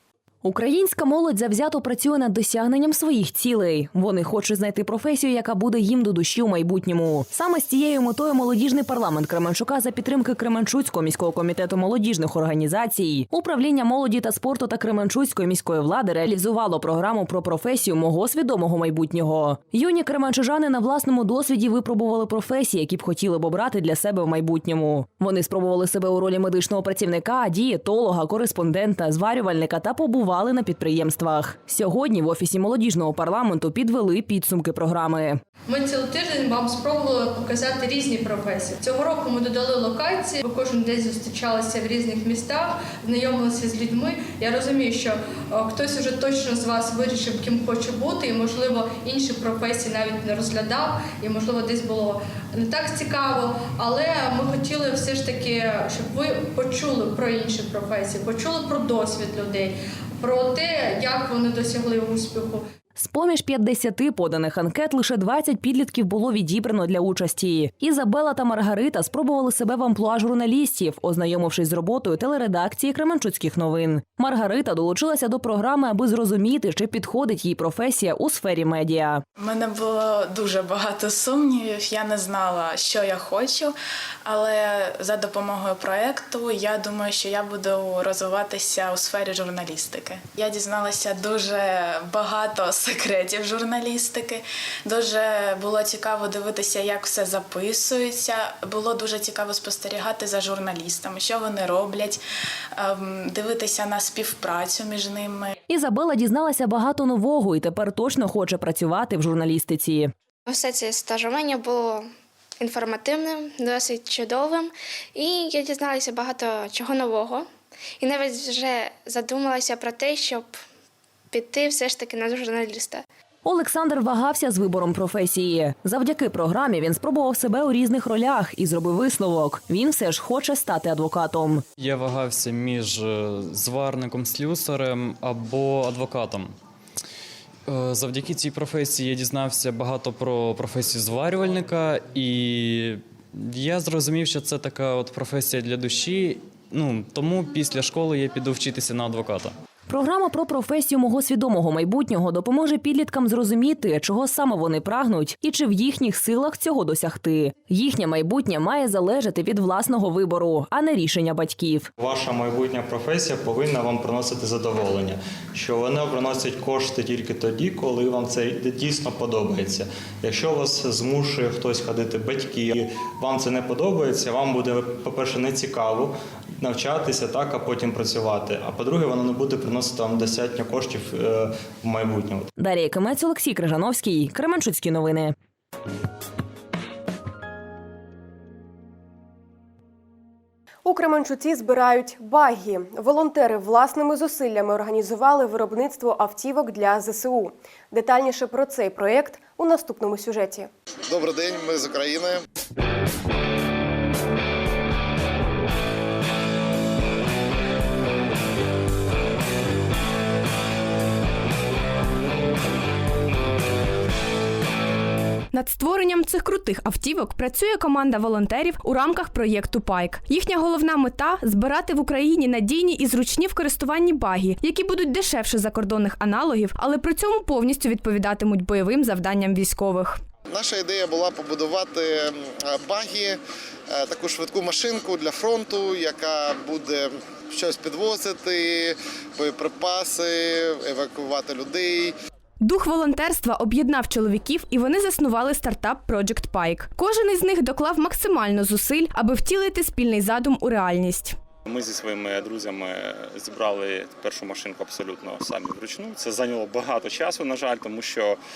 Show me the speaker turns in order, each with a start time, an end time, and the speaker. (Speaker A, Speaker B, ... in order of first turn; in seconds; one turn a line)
Speaker A: 0.4-35.4
Speaker B: 35.7-62.6
Speaker A: 63.0-79.2
Speaker C: 79.4-83.7
Speaker C: 84.2-102.2
Speaker C: 102.8-105.5
Speaker A: 105.7-110.1
Speaker D: 110.5-112.1
Speaker D: 112.6-117.5
Speaker D: 118.0-120.5
Speaker D: 121.3-123.0
Speaker A: 123.4-131.6
Speaker E: 131.8-136.5
Speaker E: 137.7-149.5
Speaker A: 149.9-161.9
Speaker F: 162.0-182.5
Speaker A: 182.6-185.3
Speaker G: 190.8-200.7
Speaker H: 201.1-202.4
Speaker I: 215.5-230.2
Speaker H: 230.5-233.4
Speaker H: 233.9-242.1
Speaker I: 242.6-251.3
Speaker J: 251.7-258.4